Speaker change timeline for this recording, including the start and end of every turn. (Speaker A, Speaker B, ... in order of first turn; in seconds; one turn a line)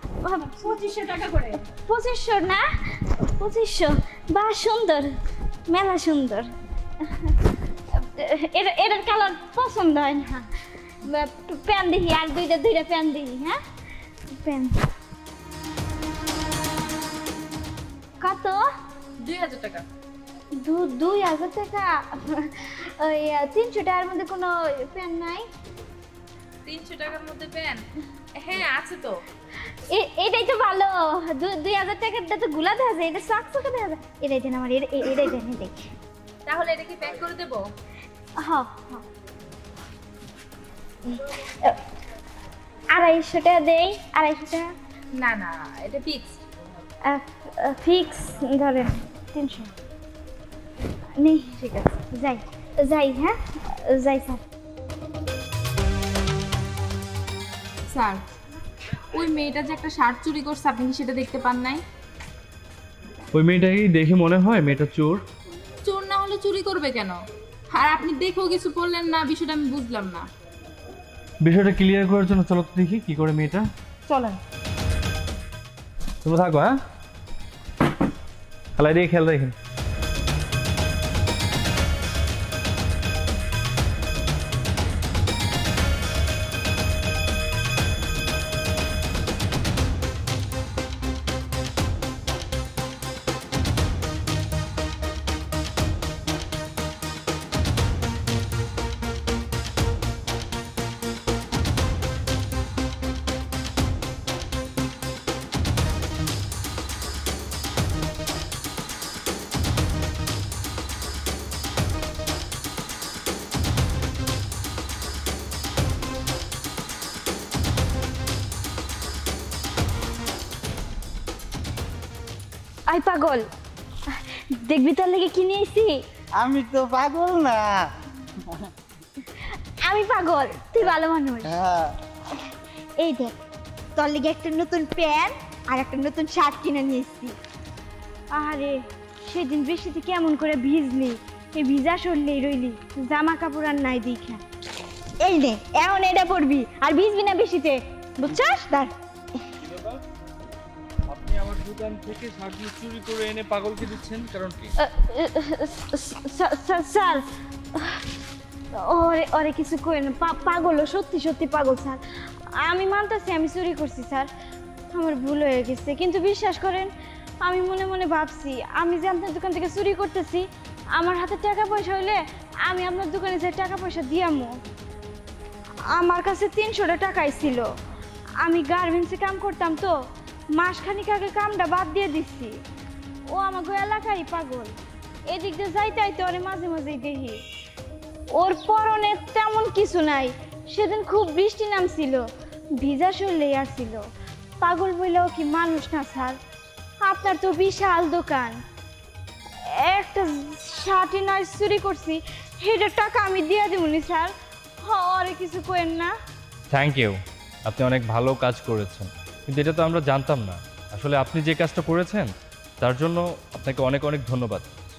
Speaker A: 0.2-0.8
Speaker B: 0.5-1.6
Speaker A: 1.7-5.1
Speaker A: 5.7-6.5
Speaker A: 7.0-13.6
Speaker A: 14.3-14.8
Speaker A: 18.2-18.6
Speaker B: 19.2-19.9
Speaker A: 20.6-25.5
Speaker B: 26.6-29.2
Speaker A: 29.9-35.7
Speaker B: 36.5-37.7
Speaker A: 38.4-39.0
Speaker A: 41.0-41.8
Speaker A: 42.9-44.7
Speaker B: 45.1-46.8
Speaker A: 47.0-49.7
Speaker A: 51.1-54.4
Speaker B: 57.9-58.3
Speaker B: 58.9-61.8
Speaker C: 63.3-65.2
Speaker B: 65.8-70.3
Speaker C: 71.4-73.7
Speaker C: 76.2-76.8
Speaker C: 78.8-79.5
Speaker A: 122.9-123.4
Speaker A: 124.1-126.0
Speaker D: 126.4-127.9
Speaker A: 129.3-131.6
Speaker D: 131.5-131.9
Speaker A: 132.3-133.3
Speaker A: 133.9-137.3
Speaker A: 138.3-144.4
Speaker A: 145.2-148.9
Speaker C: 149.6-150.0
Speaker C: 151.1-154.7
Speaker A: 154.8-158.0
Speaker A: 158.7-162.0
Speaker A: 162.6-164.3
Speaker A: 164.9-174.5
Speaker A: 175.9-177.7
Speaker A: 178.4-179.9
Speaker A: 180.6-182.5
Speaker A: 183.3-184.7
Speaker A: 185.3-187.4
Speaker A: 188.3-192.2
Speaker A: 192.8-194.0
Speaker A: 194.6-196.4
Speaker A: 197.0-198.6
Speaker A: 199.7-206.1
Speaker C: 206.7-212.3
Speaker C: 212.8-214.7